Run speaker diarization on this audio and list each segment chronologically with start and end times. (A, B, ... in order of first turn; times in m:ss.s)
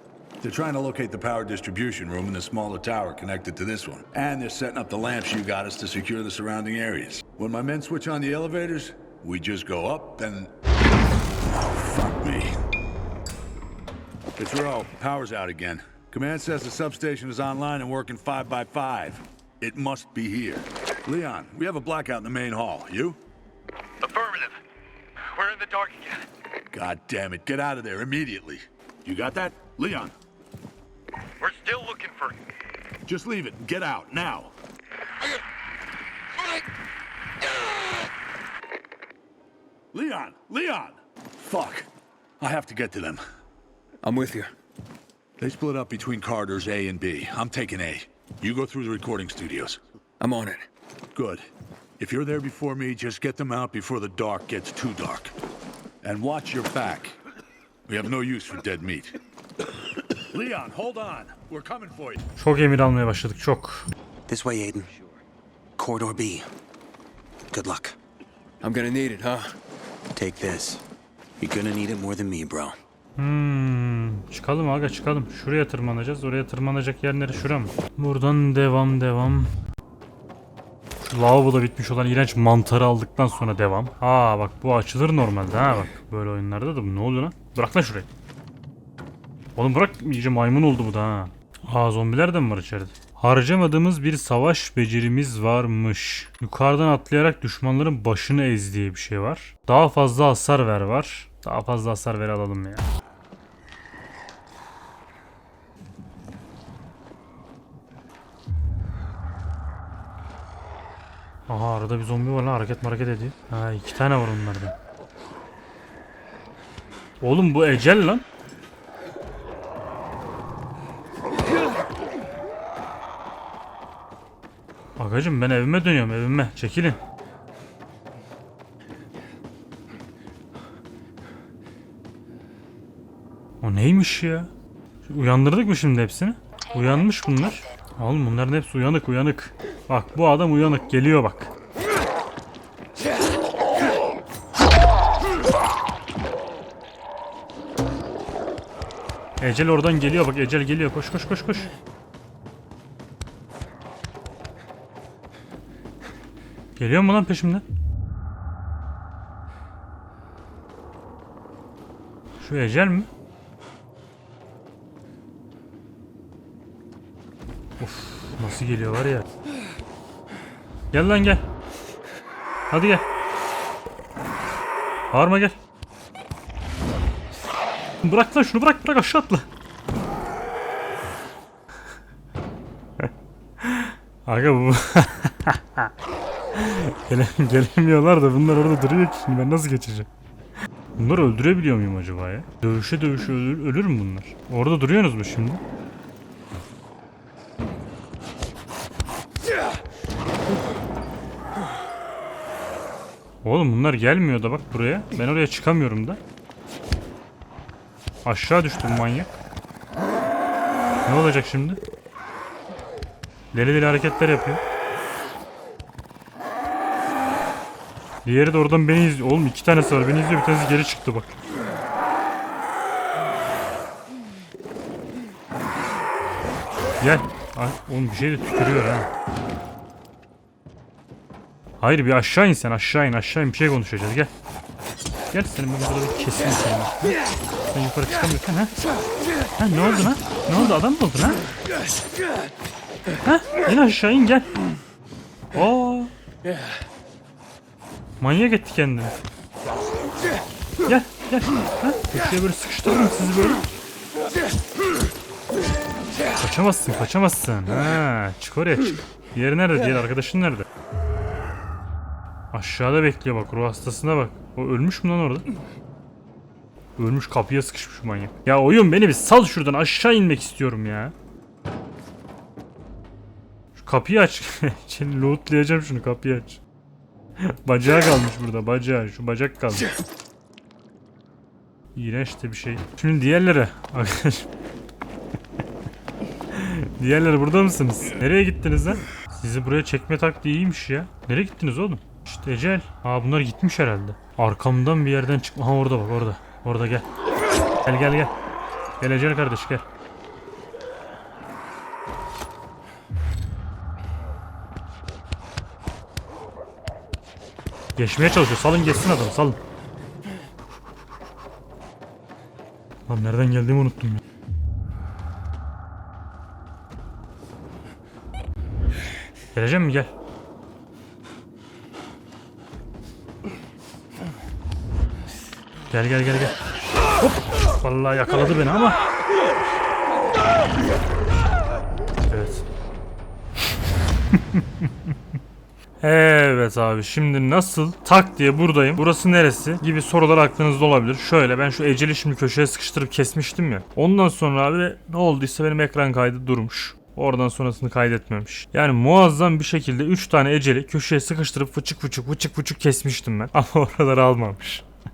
0:00.4-0:10.5 A
0:11.4-0:12.5 A
0:14.4-0:23.2 A
0:24.0-0:24.5 B
0:25.3-0:26.2 B
0:26.7-0:30.1 A
0:31.4-0:32.4 B
0:33.0-0:34.5 A
0:39.9-0:41.9 A
0:42.4-0:43.2 A
0:44.0-0:44.5 C
0:45.4-0:49.8 A
0:50.2-0:50.7 C
0:51.1-0:51.4 A
0:52.0-0:55.3 A
0:56.0-0:57.2 A
0:57.9-0:59.2 A
1:00.2-1:02.2 A
1:02.4-1:03.9 D
1:04.3-1:04.9 E
1:04.9-1:05.2 B
1:05.8-1:06.5 E
1:07.5-1:08.0 E
1:08.6-1:09.6 C
1:10.1-1:10.8 E
1:11.4-1:12.8 E
1:13.2-1:19.5 D
1:21.0-1:28.1 D
1:29.6-1:42.9 D
1:51.5-1:54.7 D
1:57.2-1:58.2 D
2:05.0-2:07.0 D
2:13.6-2:14.5 D
2:15.0-2:21.5 D
2:29.4-2:31.7 D
2:36.8-2:37.6 D
2:42.4-2:43.1 D
2:47.8-2:49.2 D
2:50.9-2:51.4 D
2:52.7-2:53.0 D
2:55.1-2:55.6 D
2:58.0-2:59.5 D
3:03.6-3:05.9 D
3:06.5-3:10.1 D
3:11.0-3:15.6 D
3:23.4-3:26.2 D
3:28.2-3:29.4 D
3:31.0-3:31.8 D
3:33.5-3:34.6 D
3:38.2-3:41.3 D
3:47.0-3:49.1 D
3:51.8-3:54.3 D
3:55.3-3:57.1 D
3:57.7-3:58.8 D
3:59.6-4:01.4 D
4:03.2-4:04.5 D
4:05.5-4:06.1 D
4:08.2-4:09.2 D
4:10.8-4:13.6 D
4:16.4-4:20.6 D
4:22.5-4:25.4 D
4:27.0-4:31.1 D
4:33.8-4:36.6 D
4:37.4-4:39.9 D
4:41.9-4:44.5 D
4:46.5-4:57.1 D
4:57.8-4:58.3 D
4:59.0-4:59.8 D
5:08.0-5:09.6 D
5:13.1-5:14.2 D
5:19.5-5:20.1 D
5:25.9-5:26.6 D
5:27.2-5:29.0 D
5:32.3-5:32.6 D
5:34.3-5:34.9 D
5:36.0-5:54.8 D